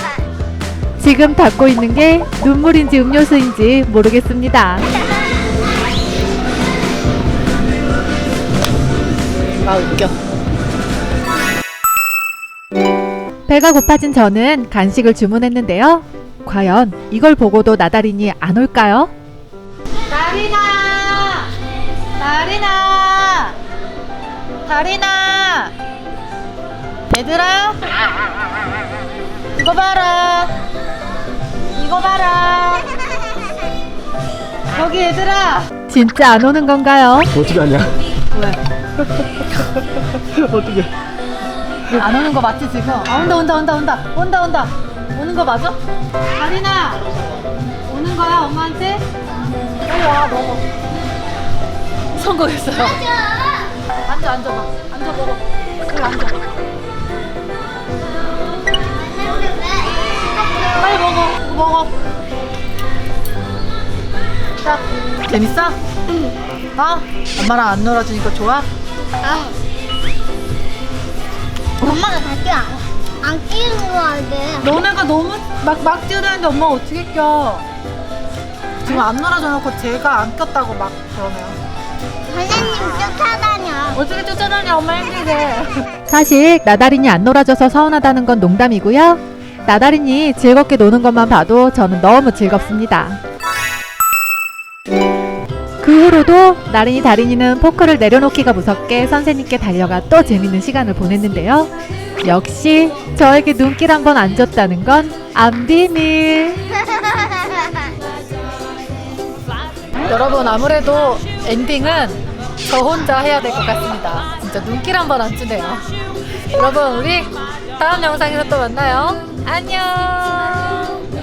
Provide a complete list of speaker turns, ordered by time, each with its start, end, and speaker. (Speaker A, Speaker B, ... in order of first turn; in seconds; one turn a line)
Speaker A: 1.0-4.9
Speaker B: 9.4-10.1
Speaker A: 13.5-19.1
Speaker B: 20.1-21.5
Speaker B: 22.2-23.6
Speaker B: 24.7-25.7
Speaker B: 27.1-27.8
Speaker B: 29.6-30.5
Speaker B: 31.8-32.9
Speaker B: 34.7-35.7
Speaker A: 35.9-37.3
Speaker C: 37.3-37.9
Speaker C: 39.1-40.9
Speaker B: 41.9-45.8
Speaker B: 46.4-47.1
Speaker B: 47.9-49.0
Speaker B: 49.9-50.6
Speaker B: 52.1-53.0
Speaker D: 52.9-53.7
Speaker B: 54.0-56.5
Speaker D: 58.9-60.0
Speaker B: 60.4-61.9
Speaker B: 64.6-65.8
Speaker B: 66.8-68.7
Speaker D: 69.2-69.5
Speaker D: 71.8-74.7
Speaker B: 74.6-77.7
Speaker B: 78.8-81.6
Speaker D: 82.3-84.0
Speaker B: 83.9-85.8
Speaker A: 86.1-93.2
Speaker A: 95.8-101.7
Speaker A: 102.2-106.6
Speaker B: 110.0-115.9
Speaker B: 116.5-121.0